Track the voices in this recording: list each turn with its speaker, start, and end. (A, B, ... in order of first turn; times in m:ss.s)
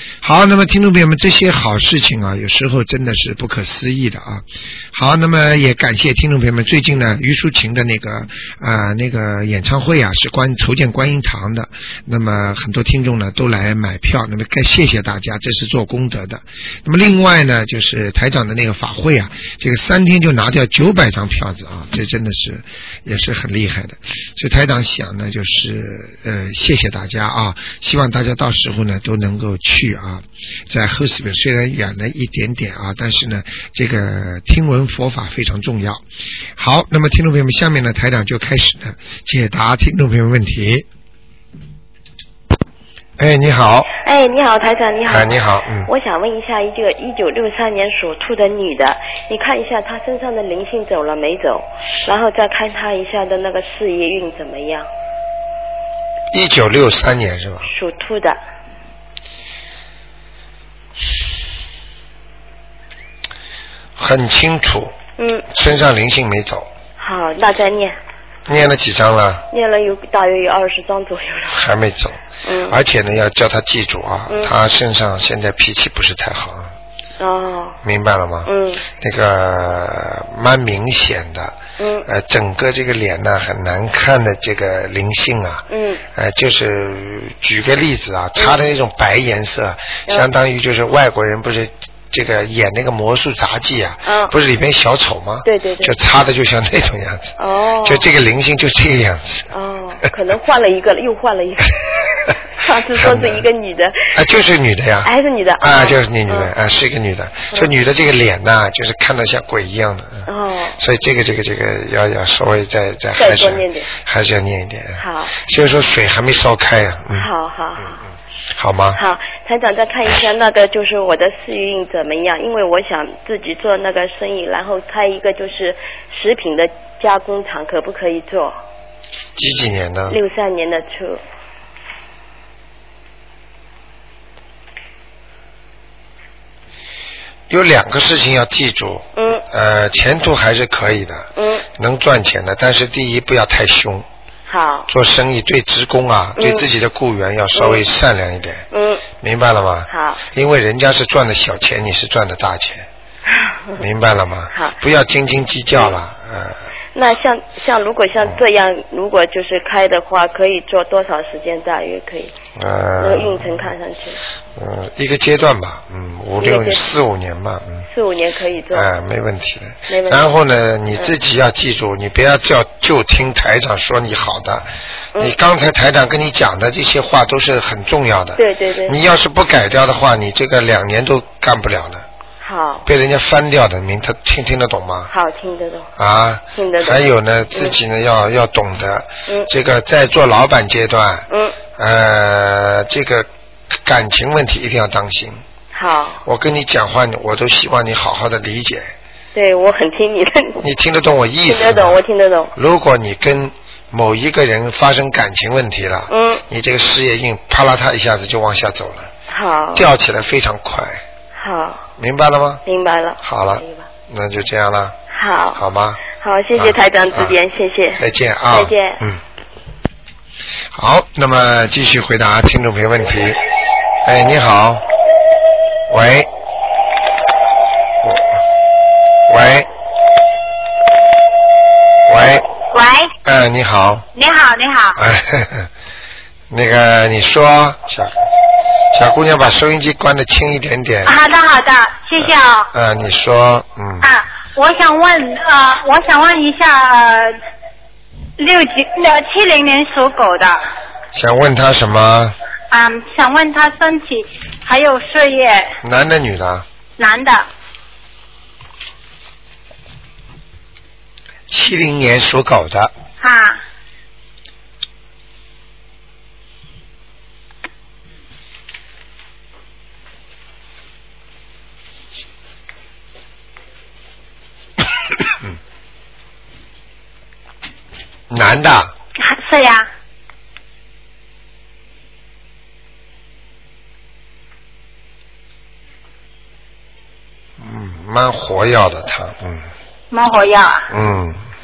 0:00.2-0:36.0 A
0:36.6-0:40.9 A
0:43.2-0:43.9 A
0:44.0-0:54.9 B
0:45.1-0:45.9 A
0:56.3-0:57.7 A
0:57.7-0:58.4 B
1:04.0-1:05.0 A
1:05.2-1:05.5 B
1:05.5-1:06.7 A
1:07.0-1:08.0 B
1:08.5-1:09.5 A
1:09.5-1:11.6 B
1:11.5-1:16.7 A
1:12.4-1:12.8 B
1:17.2-1:17.8 B
1:17.8-1:39.5 A
1:18.4-1:18.9 B
1:21.8-1:22.1 B
1:25.7-1:26.0 B
1:34.1-1:34.3 B
1:35.4-1:36.0 B
1:37.4-1:38.1 B
1:39.5-1:41.8 B
1:42.6-1:44.1 B
1:43.0-1:43.4 A
1:44.1-1:57.3 A
1:45.0-1:46.5 B
1:50.3-1:50.8 B
1:53.2-1:53.9 B
1:55.0-1:55.4 B
1:57.1-1:58.0 B
1:58.6-1:59.0 A
1:59.0-2:08.6 B
2:09.4-2:10.2 A
2:10.1-2:11.2 B
2:17.5-2:24.1 A
2:19.2-2:19.4 B
2:21.4-2:21.7 B
2:24.5-2:24.9 B
2:24.9-2:28.6 A
2:26.4-2:26.7 B
2:27.6-2:27.8 B
2:28.7-2:29.1 B
2:29.2-2:32.9 A
2:29.9-2:30.2 B
2:33.3-2:33.8 B
2:33.8-2:36.6 A
2:37.0-2:42.3 B
2:42.6-2:43.5 A
2:43.0-2:44.2 B
2:44.6-2:47.9 A
2:46.4-2:46.8 B
2:47.9-2:48.9 B
2:48.7-3:02.1 A
2:49.9-2:50.3 B
2:58.4-2:59.0 B
3:02.4-3:02.9 B
3:02.9-3:05.1 A
3:05.1-3:05.9 B
3:06.0-3:15.4 A
3:06.6-3:07.8 B
3:11.3-3:11.6 B
3:15.7-3:16.2 B
3:16.2-3:18.9 A
3:19.3-3:20.6 B
3:20.6-3:29.1 A
3:21.5-3:22.5 B
3:26.1-3:26.4 B
3:29.3-3:29.9 B
3:29.7-3:31.0 A
3:31.3-3:31.8 B
3:32.0-3:32.6 A
3:32.7-3:33.9 B
3:33.2-3:35.0 A
3:35.1-3:39.0 B
3:35.6-3:36.0 A
3:36.5-3:37.4 A
3:38.0-3:39.2 A
3:40.7-3:43.4 A
3:44.0-3:44.8 A
3:45.9-3:46.3 A
3:49.3-3:49.7 A
3:52.1-3:52.5 A
3:52.7-3:53.1 C
3:53.2-3:54.1 A
3:54.1-3:55.0 C
3:55.0-3:55.7 A
3:56.5-3:58.2 A
3:58.9-4:01.2 A
4:01.0-4:02.7 C
4:02.2-4:04.1 A
4:04.0-4:07.4 C
4:08.4-4:10.6 C
4:11.1-4:12.4 A
4:12.7-4:15.8 C
4:15.8-4:16.7 A
4:17.0-4:17.5 C
4:21.5-4:22.9 A
4:23.2-4:23.6 C
4:38.3-4:38.9 A
4:39.2-4:39.9 C
4:47.6-4:49.7 A
4:50.1-4:50.9 C
4:50.9-4:51.4 A